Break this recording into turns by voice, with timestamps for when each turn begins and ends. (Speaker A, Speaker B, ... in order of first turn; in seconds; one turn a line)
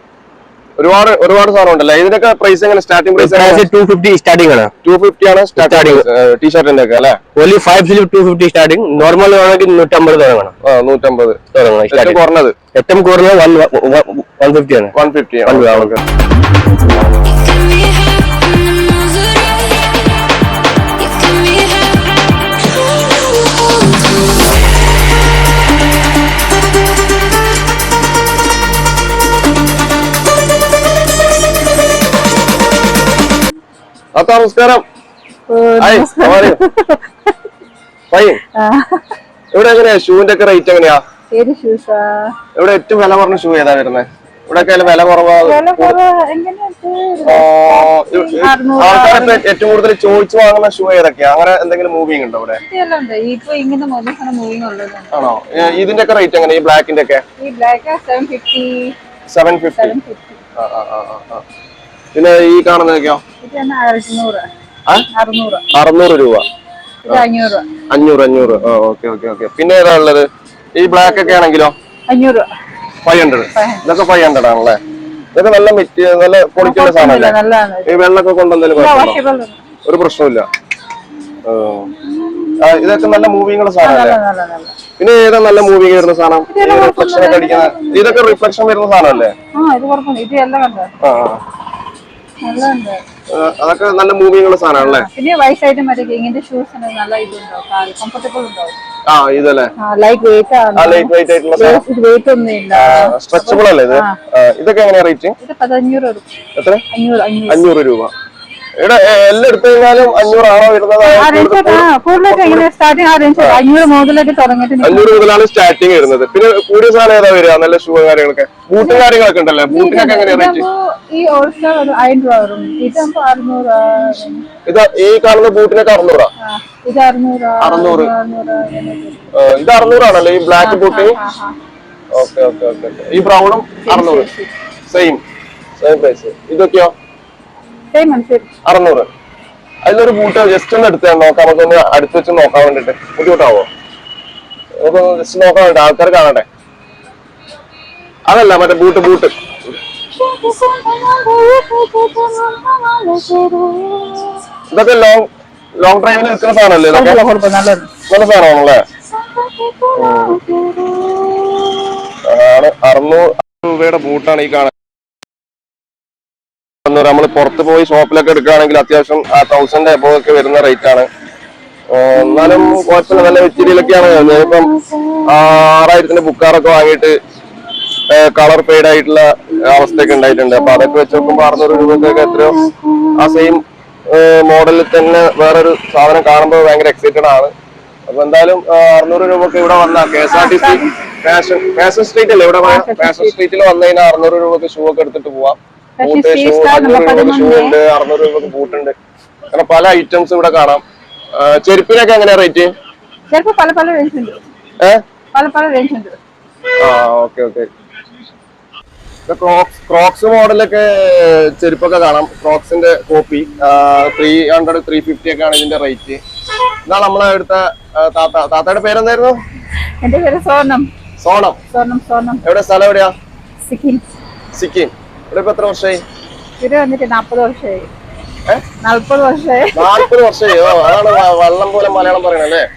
Speaker A: 0.8-3.6
Speaker B: 3.2-4.7
Speaker A: 4.8-7.2
Speaker B: 5.6-6.1
Speaker B: 7.4-10.5
Speaker A: 10.6-12.6
Speaker B: 11.5-12.2
Speaker B: 12.8-14.9
Speaker A: 14.9-16.0
Speaker B: 15.5-15.9
Speaker A: 34.1-34.8
Speaker C: 35.5-37.3
Speaker A: 35.8-36.6
Speaker A: 38.1-38.4
Speaker C: 38.6-39.0
Speaker A: 39.5-41.0
Speaker C: 41.3-42.3
Speaker A: 42.6-46.0
Speaker C: 44.6-49.4
Speaker A: 47.2-52.6
Speaker C: 52.6-55.1
Speaker A: 55.1-57.2
Speaker C: 57.4-58.9
Speaker A: 59.3-60.0
Speaker C: 59.8-60.4
Speaker A: 60.6-61.4
Speaker A: 62.1-63.2
Speaker C: 63.4-64.5
Speaker C: 65.1-65.6
Speaker A: 65.7-66.5
Speaker C: 67.1-67.7
Speaker A: 67.9-71.8
Speaker C: 70.9-71.4
Speaker C: 72.1-72.5
Speaker A: 73.0-74.8
Speaker C: 73.5-73.9
Speaker A: 75.3-77.4
Speaker C: 76.6-78.0
Speaker A: 77.9-79.2
Speaker C: 78.8-79.6
Speaker A: 79.8-80.5
Speaker A: 81.4-81.9
Speaker C: 82.1-82.8
Speaker A: 82.6-84.2
Speaker C: 83.8-84.7
Speaker A: 85.0-89.3
Speaker C: 86.5-88.4
Speaker C: 89.5-90.9
Speaker A: 91.0-91.4
Speaker C: 92.4-93.0
Speaker A: 93.3-95.1
Speaker C: 94.8-98.8
Speaker A: 99.1-99.7
Speaker C: 99.8-104.2
Speaker A: 100.8-101.8
Speaker A: 102.7-105.3
Speaker C: 105.4-106.3
Speaker A: 106.6-106.8
Speaker C: 106.9-107.7
Speaker A: 107.5-108.1
Speaker A: 108.8-112.7
Speaker C: 111.0-115.3
Speaker A: 114.8-120.7
Speaker C: 118.8-119.1
Speaker C: 119.7-124.5
Speaker A: 124.7-126.3
Speaker C: 126.4-129.2
Speaker A: 127.6-128.1
Speaker A: 129.3-131.2
Speaker C: 130.6-131.6
Speaker A: 132.1-134.3
Speaker C: 133.8-134.5
Speaker A: 134.9-135.2
Speaker A: 135.8-136.9
Speaker C: 137.9-138.5
Speaker A: 138.7-139.1
Speaker A: 139.8-143.7
Speaker A: 144.8-146.4
Speaker A: 148.3-149.3
Speaker C: 150.2-154.4
Speaker A: 154.7-157.2
Speaker C: 156.9-157.9
Speaker A: 158.1-158.8
Speaker C: 159.2-161.8
Speaker A: 159.9-160.4
Speaker A: 162.2-164.7
Speaker A: 166.8-171.1
Speaker A: 171.9-174.7
Speaker C: 172.2-175.2
Speaker A: 175.3-177.2
Speaker A: 178.1-182.6
Speaker C: 180.1-183.6
Speaker A: 183.2-187.5
Speaker A: 188.1-198.9
Speaker C: 190.2-190.9
Speaker C: 192.6-193.3
Speaker C: 196.0-197.8
Speaker A: 199.5-200.8
Speaker A: 201.3-202.7
Speaker C: 203.3-204.4
Speaker C: 205.3-206.2
Speaker A: 206.8-207.7
Speaker A: 209.3-216.2
Speaker A: 216.8-219.4
Speaker C: 220.0-220.9
Speaker A: 221.2-221.6
Speaker C: 221.7-222.4
Speaker A: 222.4-223.1
Speaker C: 223.7-224.0
Speaker A: 224.6-226.0
Speaker C: 226.6-227.9
Speaker C: 228.8-230.1
Speaker A: 229.8-232.7
Speaker C: 230.6-231.2